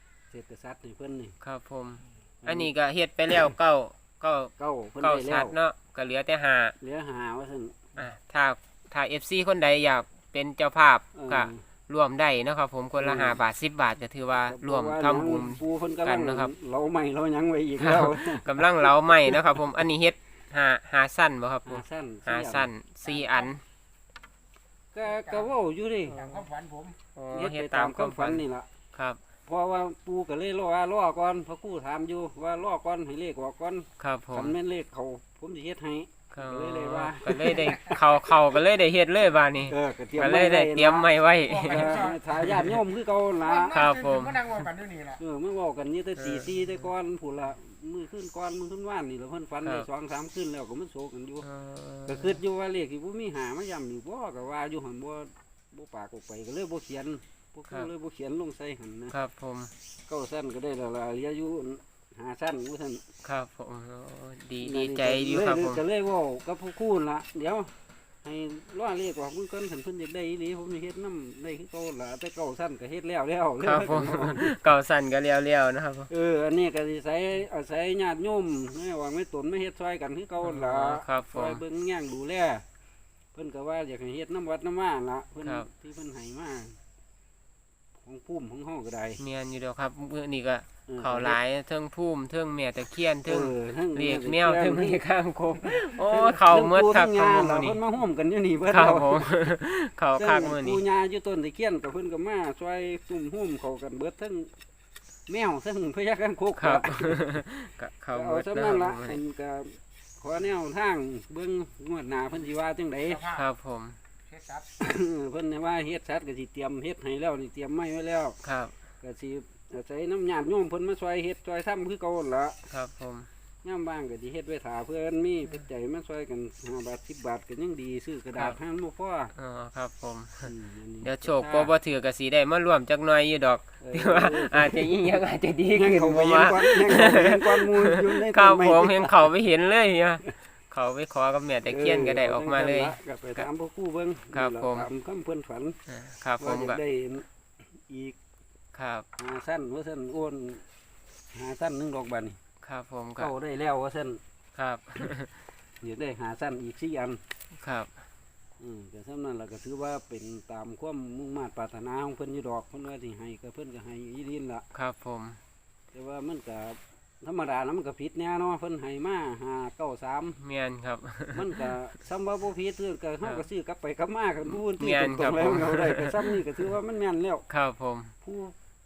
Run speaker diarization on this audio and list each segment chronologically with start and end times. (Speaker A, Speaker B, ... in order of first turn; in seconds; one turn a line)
Speaker A: 0.3-1.3
Speaker B: 1.4-6.8
Speaker A: 2.4-2.7
Speaker A: 4.6-5.5
Speaker A: 6.8-7.8
Speaker B: 8.0-16.5
Speaker A: 11.1-11.6
Speaker A: 13.0-13.4
Speaker A: 14.5-19.4
Speaker B: 17.8-23.6
Speaker A: 21.6-22.7
Speaker A: 24.9-26.4
Speaker C: 26.2-27.0
Speaker B: 27.1-29.2
Speaker A: 27.3-28.7
Speaker A: 29.5-38.0
Speaker B: 34.0-34.5
Speaker B: 36.3-42.7
Speaker A: 39.7-41.1
Speaker C: 41.6-42.1
Speaker A: 41.6-43.9
Speaker C: 43.5-45.2
Speaker B: 43.7-44.6
Speaker A: 45.2-51.5
Speaker B: 46.2-46.7
Speaker B: 49.6-49.9
Speaker B: 51.4-52.4
Speaker A: 52.1-59.1
Speaker B: 59.1-59.7
Speaker A: 60.1-63.0
Speaker B: 63.2-65.8
Speaker A: 64.6-67.7
Speaker A: 68.2-74.5
Speaker B: 73.6-76.1
Speaker A: 76.1-82.6
Speaker B: 80.4-81.6
Speaker A: 83.3-86.8
Speaker B: 85.4-85.7
Speaker A: 88.0-89.2
Speaker B: 89.2-97.8
Speaker A: 90.9-91.4
Speaker A: 93.3-95.0
Speaker A: 96.1-99.3
Speaker B: 98.7-100.8
Speaker A: 100.2-104.5
Speaker A: 105.3-107.2
Speaker B: 106.6-109.2
Speaker A: 108.1-113.3
Speaker B: 113.2-114.0
Speaker C: 114.3-114.7
Speaker A: 114.8-118.4
Speaker B: 118.4-118.7
Speaker A: 119.0-122.6
Speaker B: 122.7-123.3
Speaker A: 123.6-129.3
Speaker B: 129.3-143.5
Speaker A: 130.4-131.7
Speaker A: 133.8-135.2
Speaker A: 135.7-139.2
Speaker A: 141.7-145.8
Speaker B: 144.3-144.9
Speaker B: 145.9-146.8
Speaker A: 146.4-148.2
Speaker B: 148.7-149.1
Speaker A: 149.2-150.6
Speaker A: 151.3-152.4
Speaker B: 152.6-153.3
Speaker A: 153.2-154.2
Speaker B: 154.5-155.4
Speaker A: 155.8-157.2
Speaker B: 157.5-158.0
Speaker A: 158.6-164.7
Speaker B: 164.7-165.4
Speaker A: 165.9-170.4
Speaker B: 170.4-171.7
Speaker A: 171.3-177.4
Speaker B: 174.6-176.4
Speaker B: 177.5-178.1
Speaker A: 178.2-178.5